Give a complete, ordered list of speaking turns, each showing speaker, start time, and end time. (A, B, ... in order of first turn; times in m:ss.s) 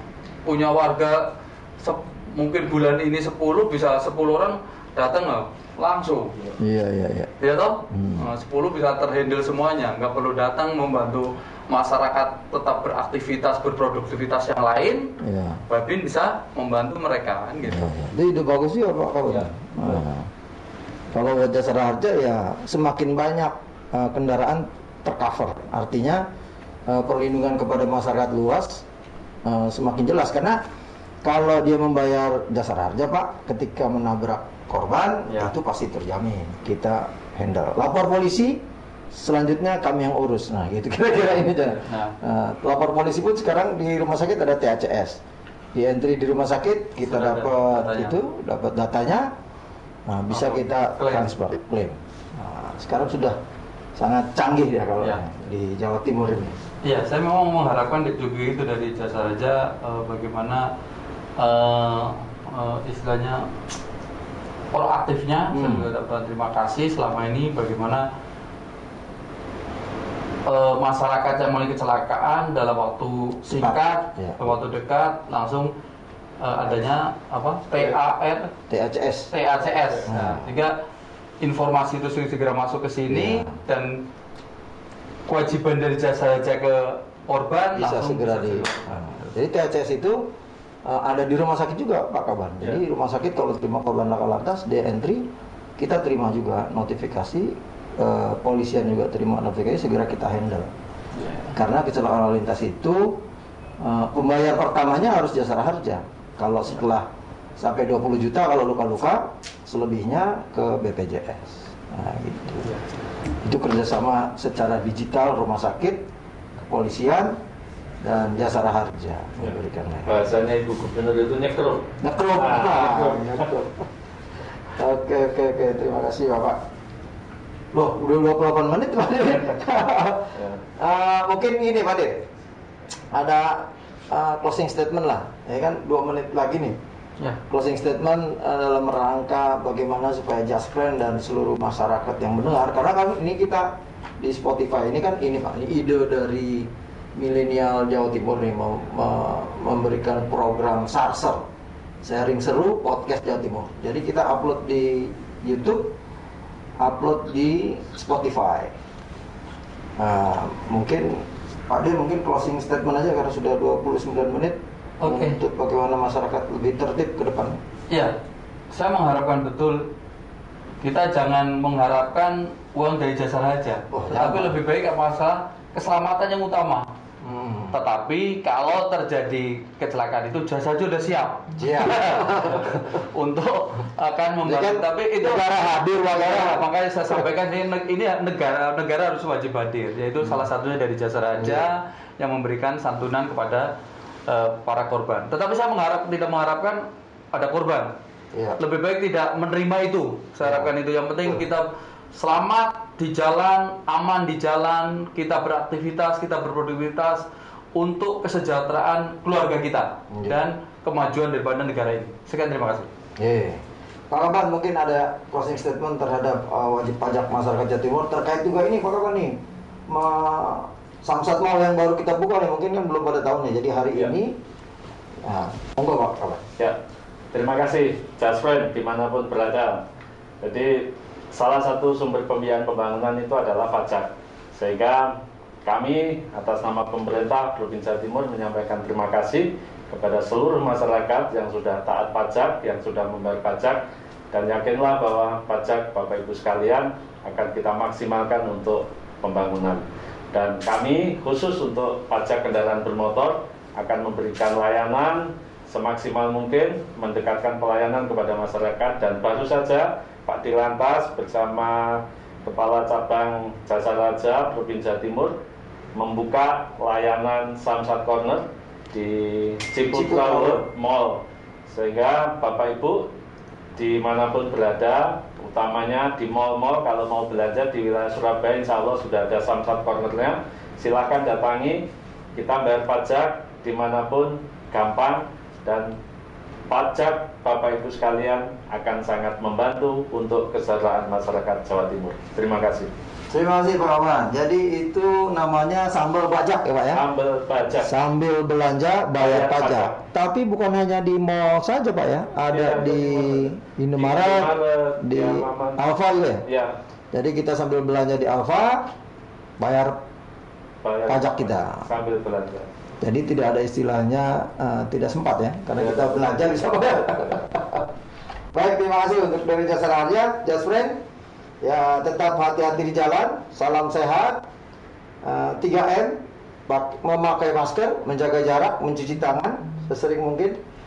0:00.4-0:06.3 A
0:06.6-0:07.3 B
0:07.4-0:15.2 A
0:07.9-0:08.3 B
0:15.2-0:15.6 B
0:15.7-0:17.9 A
0:17.6-0:20.3 B
0:21.1-0:26.2 B
0:26.9-0:28.9 B
0:29.4-0:30.6 B
0:31.2-0:45.2 B
0:41.8-0:42.2 A
0:45.7-0:49.3 B
0:47.0-0:48.2 A
0:50.1-0:53.4 B
0:50.3-0:51.3 A
0:54.0-0:56.6 B
0:56.8-1:00.7 A
1:01.4-1:03.5 A
1:04.7-1:08.1 A
1:05.5-1:05.9 B
1:10.5-1:15.7 A
1:13.5-1:14.6 B
1:16.4-1:18.5 A
1:18.7-1:19.3 B
1:19.3-1:20.8 A
1:20.1-1:20.5 B
1:21.4-1:24.0 A
1:23.1-1:23.6 B
1:25.3-1:29.0 A
1:27.8-1:30.3 B
1:30.8-1:35.2 B
1:35.8-1:40.7 B
1:41.5-1:43.2 B
1:43.8-1:52.8 B
1:53.4-1:57.4 B
1:58.0-2:00.2 B
1:59.4-2:03.5 C
2:02.0-2:03.9 B
2:04.7-2:06.6 B
2:07.7-2:12.3 B
2:10.4-2:10.6 C
2:13.1-2:16.8 B
2:17.5-2:31.5 B
2:32.0-2:35.9 B
2:36.8-2:38.7 B
2:40.0-2:47.6 B
2:45.0-2:45.4 A
2:48.7-2:49.9 A
2:50.8-2:56.9 A
2:53.9-2:54.6 B
2:57.2-2:57.8 B
2:57.7-3:13.7 A
3:01.6-3:03.0 B
3:04.4-3:07.2 B
3:11.4-3:11.6 B
3:14.3-3:17.9 A
3:18.3-3:18.6 B
3:18.6-3:32.9 A
3:20.4-3:20.7 B
3:30.1-3:30.4 B
3:33.2-3:44.4 B
3:45.2-3:46.4 B
3:47.3-3:49.8 C
3:50.4-4:25.4 C
4:26.0-4:33.1 C
4:29.9-4:30.7 B
4:33.8-4:45.9 C
4:46.7-4:52.9 C
4:53.3-4:57.0 B
4:56.9-4:57.9 C
4:57.8-5:06.4 B
4:59.2-5:00.0 C
5:02.5-5:05.9 C
5:06.4-5:06.8 C
5:07.1-5:08.9 B
5:09.6-5:10.0 B
5:10.8-5:12.7 C
5:11.1-5:11.9 B
5:13.0-5:17.9 B
5:15.8-5:16.4 C
5:18.5-5:21.0 B
5:21.6-5:24.5 B
5:25.2-5:30.6 B